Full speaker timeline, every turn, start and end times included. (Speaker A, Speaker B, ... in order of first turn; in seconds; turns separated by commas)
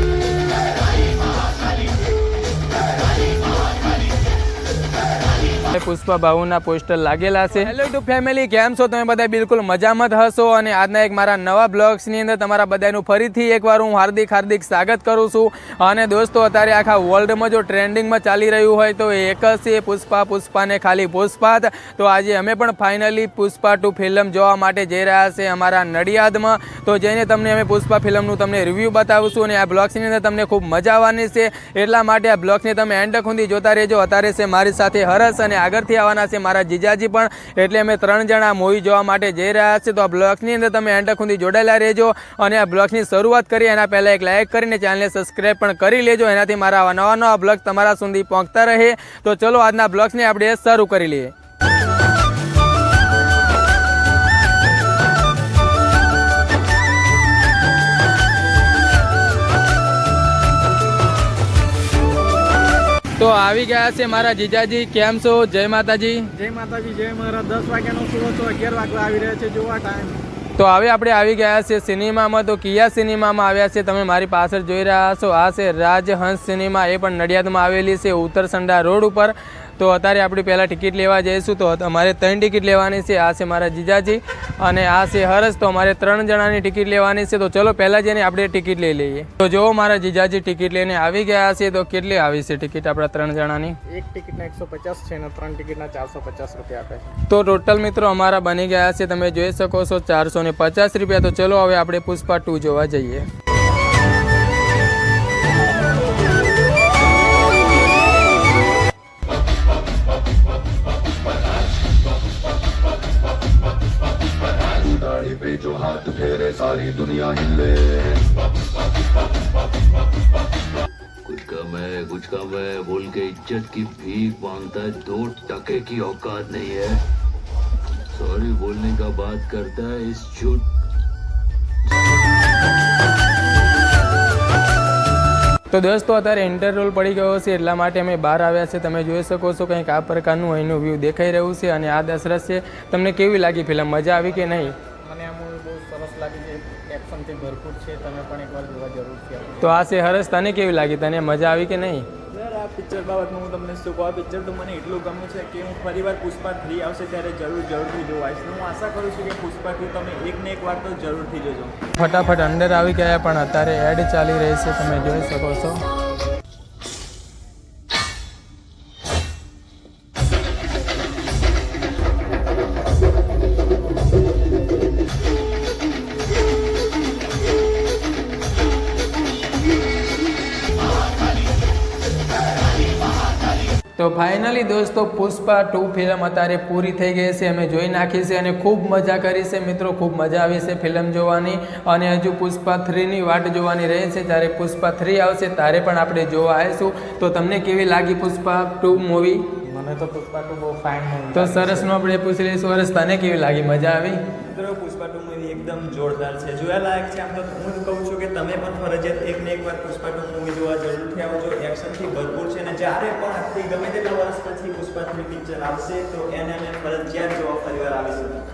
Speaker A: 5.7-51.3, Speaker A: 63.2-66.3, Speaker B: 66.3-70.2, Speaker A: 70.6-93.8, Speaker B: 93.9-97.1, Speaker A: 97.3-103.2, Speaker C: 114.7-118.2, Speaker C: 121.2-127.0, Speaker C: 128.1-130.6, Speaker A: 135.7-144.7, Speaker B: 144.3-149.7, Speaker A: 149.6-152.1, Speaker D: 152.3-161.7, Speaker A: 162.0-165.8, Speaker A: 184.0-199.4, Speaker B: 199.6-201.9, Speaker A: 201.3-204.2, Speaker D: 204.4-218.4